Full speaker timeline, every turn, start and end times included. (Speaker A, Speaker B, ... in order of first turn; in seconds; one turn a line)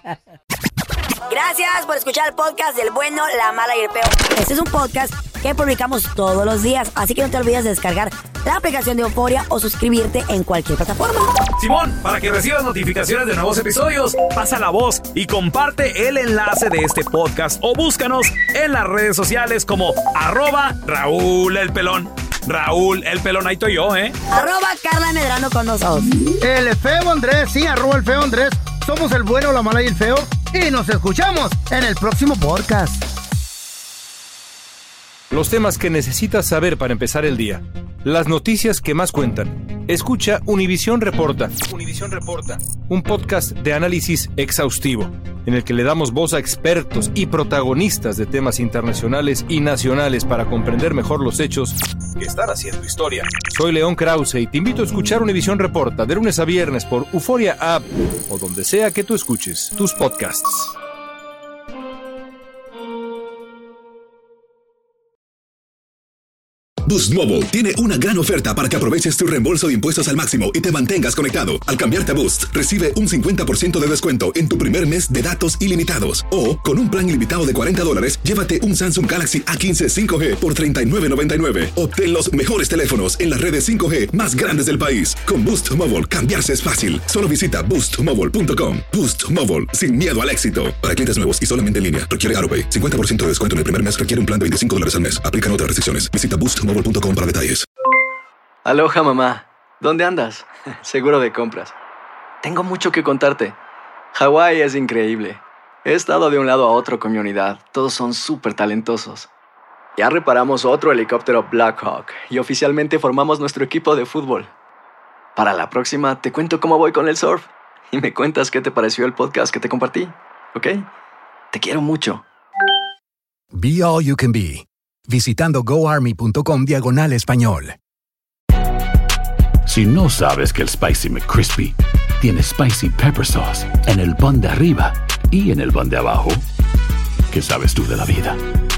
Speaker A: 1.3-11.3
Speaker B: 11.6-24.1
Speaker A: 24.3-26.1
Speaker C: 26.4-33.0
Speaker D: 35.3-60.8
Speaker E: 66.8-97.7
Speaker F: 98.6-101.8
Speaker F: 102.4-103.6
Speaker F: 104.1-109.3
Speaker F: 110.0-114.5
Speaker F: 115.4-120.9
Speaker F: 121.5-122.2
Speaker G: 123.5-127.8
Speaker H: 129.7-136.4
Speaker H: 137.3-138.4